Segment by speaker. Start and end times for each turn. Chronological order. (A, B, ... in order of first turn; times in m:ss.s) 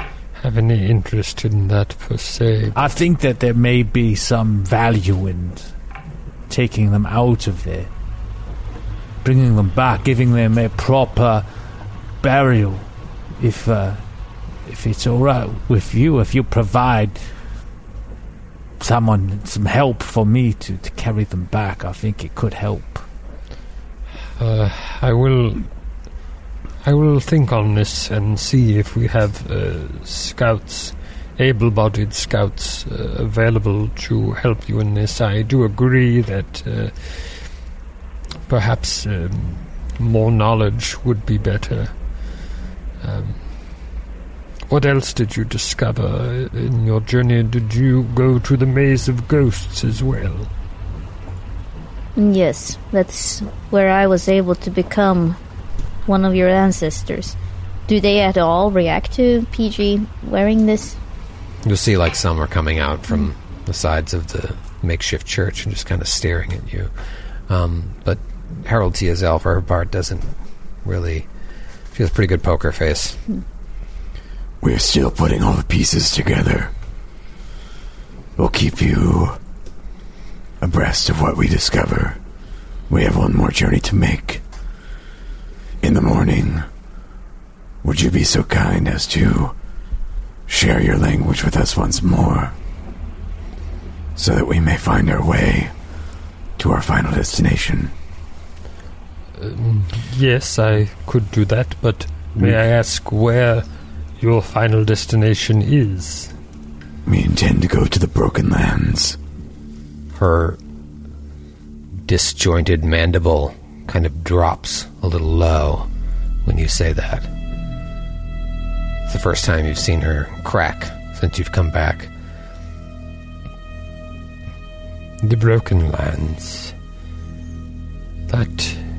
0:00.4-0:02.9 A
0:02.8-0:05.7 B
0:06.5-0:07.9 B
0:09.2-0:11.5 B
0:12.2-0:12.9 B
0:13.4-0:14.0 B
0:14.7-0:17.2 B
0:18.8-0:23.0 B
0:24.4-0:25.7 A
0:26.8-0:37.4 A
0:38.5-0:41.9 A
0:43.0-0:43.4 A
0:44.7-0:50.5 A
0:52.2-0:55.4 C
0:56.1-0:57.4 C
0:57.9-1:01.0 C
1:01.6-1:06.9 D
1:07.5-1:11.3 D
1:11.9-1:13.2 D
1:14.6-1:16.7 E
1:18.4-1:19.4 E
1:20.6-1:22.2 E
1:22.9-1:24.4 E
1:25.8-1:26.7 E
1:27.8-1:29.6 E
1:30.5-1:32.6 E
1:34.2-1:35.7 E
1:36.6-1:37.9 E
1:39.4-1:43.7 A
1:44.2-1:46.3 A
1:47.0-1:49.2 E
1:50.1-1:50.6 D
1:52.0-1:55.9 D
1:56.4-1:57.3 D
1:59.1-2:02.1 D
2:05.2-2:06.7 A
2:08.3-2:08.8 A